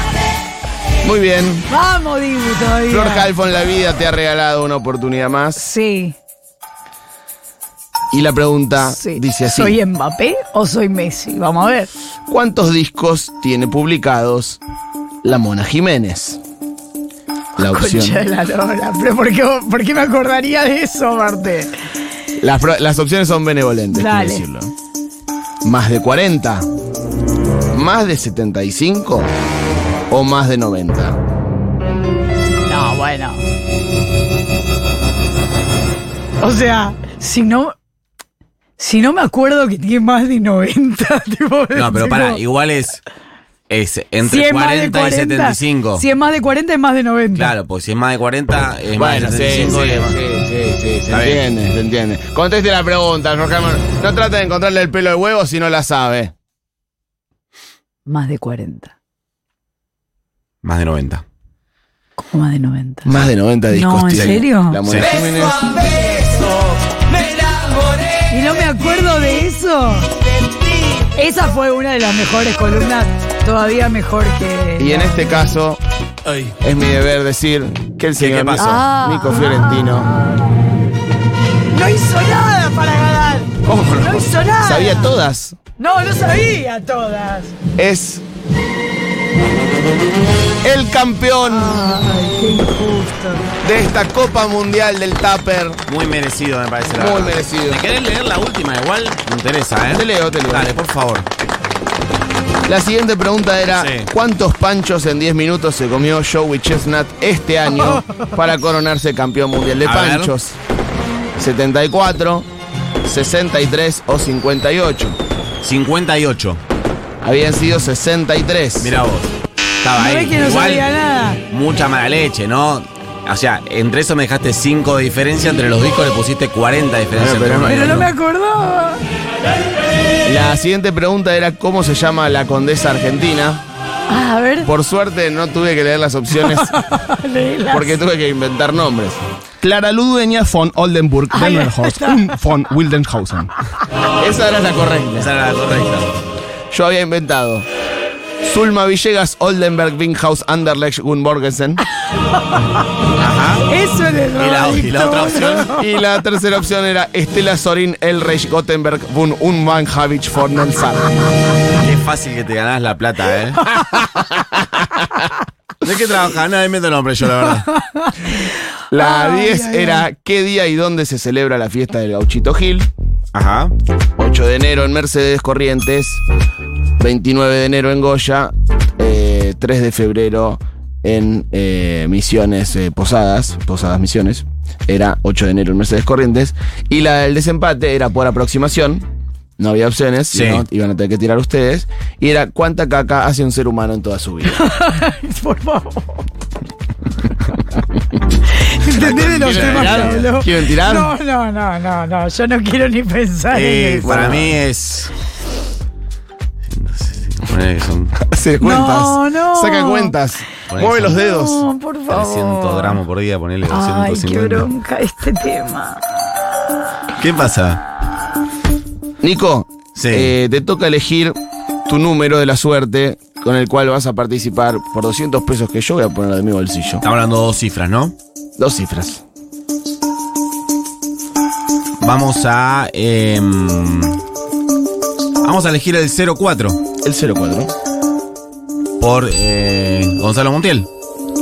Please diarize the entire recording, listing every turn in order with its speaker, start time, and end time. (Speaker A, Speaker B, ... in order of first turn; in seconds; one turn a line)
Speaker A: 1.0-1.7
Speaker B: 1.7-3.3
Speaker A: 2.9-5.6
Speaker B: 5.6-6.2
Speaker A: 8.1-9.8
Speaker B: 8.8-11.9
Speaker A: 12.3-14.6
Speaker A: 15.2-16.4
Speaker A: 17.6-18.2
Speaker B: 17.6-21.8
Speaker A: 22.4-24.7
Speaker B: 23.9-24.4
Speaker A: 25.6-26.7
Speaker A: 27.7-29.3
Speaker A: 30.1-31.2
Speaker B: 32.7-33.5
Speaker B: 36.4-37.8
Speaker B: 38.8-42.4
Speaker C: 41.8-43.0
Speaker C: 43.7-46.0
Speaker B: 44.2-47.5
Speaker C: 47.3-50.2
Speaker A: 48.9-56.3
Speaker C: 51.1-51.4
Speaker B: 58.1-58.9
Speaker C: 60.6-61.2
Speaker B: 62.2-63.2
Speaker A: 63.0-66.2
Speaker B: 63.7-64.8
Speaker C: 64.1-65.1
Speaker B: 68.3-70.1
Speaker B: 71.0-75.2
Speaker A: 74.8-75.8
Speaker C: 76.3-76.5
Speaker A: 76.6-80.2
Speaker C: 78.2-78.7
Speaker B: 78.6-80.5
Speaker B: 81.7-85.1
Speaker A: 83.6-85.6
Speaker B: 85.8-87.5
Speaker A: 87.8-88.2
Speaker A: 90.6-91.9
Speaker B: 91.5-93.5
Speaker A: 93.6-95.8
Speaker C: 95.9-101.3
Speaker A: 96.9-97.8
Speaker A: 99.9-100.7
Speaker A: 102.7-110.6
Speaker C: 103.8-104.1
Speaker C: 109.8-110.3
Speaker A: 111.4-112.5
Speaker A: 113.0-115.2
Speaker C: 115.6-116.6
Speaker A: 117.2-118.9
Speaker C: 118.8-120.9
Speaker B: 120.0-121.4
Speaker C: 121.5-128.1
Speaker A: 127.2-128.1
Speaker B: 127.6-129.0
Speaker A: 130.2-133.6
Speaker B: 134.1-134.7
Speaker A: 134.6-136.7
Speaker B: 136.4-138.0
Speaker A: 137.7-143.5
Speaker B: 141.3-142.4
Speaker A: 144.2-145.3
Speaker C: 145.2-146.2
Speaker A: 146.7-147.7
Speaker A: 148.4-151.8
Speaker B: 152.3-152.8
Speaker C: 153.2-153.7
Speaker B: 153.7-155.9
Speaker C: 154.3-155.7
Speaker A: 155.7-161.2
Speaker C: 161.8-163.7
Speaker A: 163.7-165.3
Speaker C: 165.8-167.7
Speaker B: 167.7-170.1
Speaker A: 168.9-172.9
Speaker C: 173.3-173.7
Speaker A: 174.2-176.2
Speaker A: 177.0-189.1
Speaker A: 189.6-194.6
Speaker C: 190.3-190.7
Speaker B: 194.5-196.2
Speaker B: 198.5-204.3
Speaker A: 198.9-201.2
Speaker C: 198.9-200.3
Speaker C: 203.5-205.1
Speaker A: 204.0-204.6
Speaker C: 206.7-208.2
Speaker A: 208.2-211.7
Speaker B: 208.6-210.2
Speaker C: 210.7-211.2
Speaker B: 211.2-213.0
Speaker C: 212.1-214.7
Speaker B: 213.7-216.2
Speaker C: 217.2-217.8
Speaker A: 219.2-227.1
Speaker C: 219.9-220.3
Speaker C: 227.0-228.2
Speaker A: 228.6-229.2
Speaker C: 232.0-234.2
Speaker C: 235.4-236.8
Speaker A: 237.0-237.7
Speaker C: 239.0-240.9